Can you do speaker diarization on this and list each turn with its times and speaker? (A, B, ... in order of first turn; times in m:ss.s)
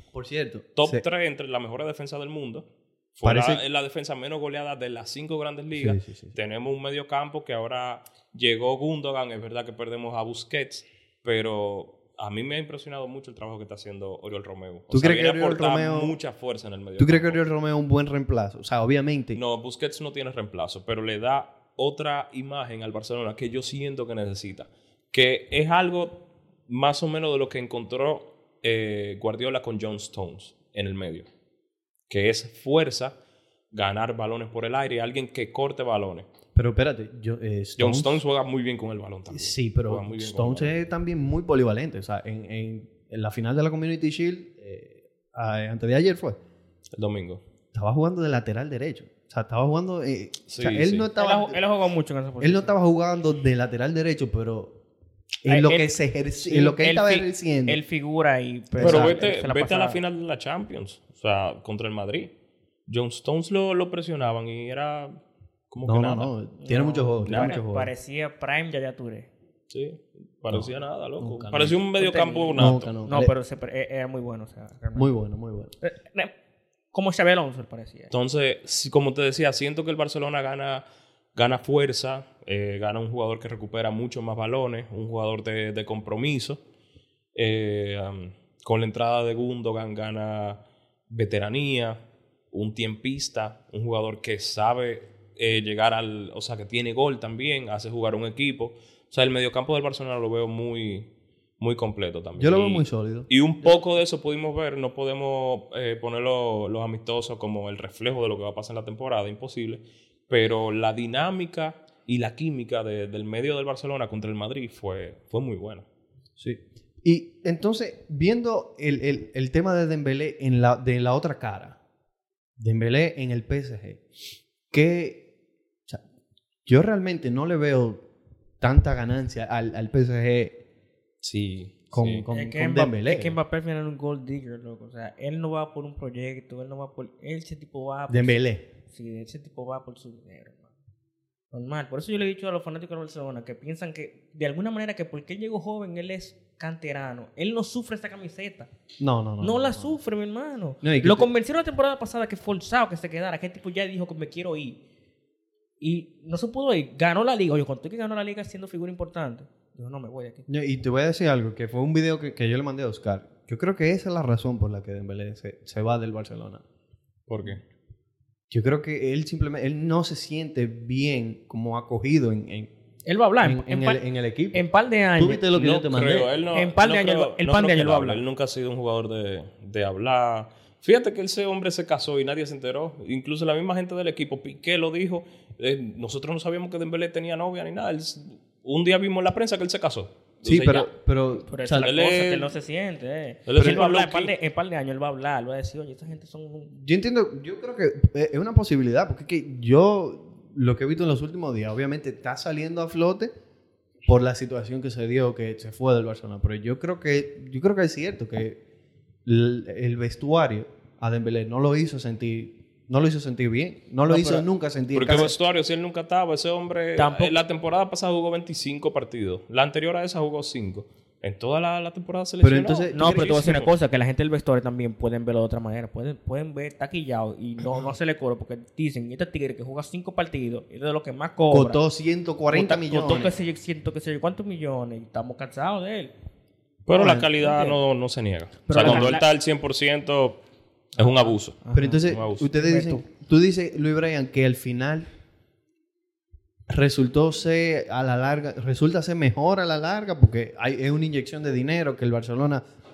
0:00.1-0:01.0 A
0:00.8-0:17.4 B
0:03.2-0:03.6 A
0:05.7-0:06.4 A
0:14.9-0:16.2 A
0:17.0-0:19.4 A
0:19.4-0:31.3 B
0:32.1-0:33.2 B
0:33.7-0:36.3 B
0:36.6-0:38.2 A
0:37.8-0:40.8 B
0:39.3-0:46.4 A
0:47.0-0:47.4 B
0:47.7-0:51.6 A
0:50.5-0:51.1 B
0:51.2-0:52.8 C
0:52.4-0:54.8 A
0:55.4-0:57.8 A
0:55.5-1:00.0 C
0:58.8-0:59.3 A
0:58.8-1:02.3 B
1:02.9-1:05.2 B
1:05.7-1:06.3 B
1:05.8-1:07.9 A
1:06.6-1:09.3 C
1:07.3-1:07.6 B
1:09.7-1:12.9 B
1:10.5-1:11.8 A
1:11.9-1:15.1 C
1:12.6-1:13.4 A
1:15.0-1:15.7 A
1:15.8-1:16.3 C
1:16.9-1:18.1 C
1:18.1-1:20.8 B
1:21.4-1:26.6 B
1:27.4-1:32.0 B
1:32.5-1:55.9 B
1:42.4-1:43.7 A
1:56.4-2:01.8 A
2:02.6-2:04.0 A
2:04.7-2:05.3 A
2:06.7-2:08.0 A
2:08.6-2:10.6 A
2:11.2-2:12.3 B
2:11.9-2:13.4 A
2:12.3-2:20.7 C
2:18.1-2:18.6 A
2:21.5-2:28.7 C
2:29.0-2:30.0 A
2:29.4-2:34.8 C
2:30.8-2:31.3 A
2:35.8-2:40.5 C
2:40.5-2:46.6 A
2:47.3-2:47.6 B
2:48.5-2:52.7 A
2:53.1-2:55.8 C
2:53.4-2:54.6 A
2:55.2-2:56.3 A
2:55.6-3:10.9 B
2:56.5-2:58.2 C
3:10.4-3:11.9 A
3:11.5-3:16.7 C
3:11.8-3:12.5 B
3:13.5-3:14.3 B
3:13.6-3:13.8 A
3:16.7-3:23.3 A
3:24.1-3:28.6 A
3:29.2-3:35.4 A
3:34.1-3:34.5 C
3:34.9-3:43.7 B
3:37.0-3:37.3 C
3:42.4-3:43.6 A
3:42.9-3:51.8 C
3:51.5-3:53.3 A
3:52.5-3:56.1 C
3:56.9-4:00.4 B
3:56.9-3:57.3 A
3:57.4-3:57.8 C
3:58.7-3:59.3 C
3:58.8-3:59.1 A
4:01.0-4:02.5 B
4:01.0-4:03.0 C
4:01.7-4:05.1 A
4:06.7-4:12.6 A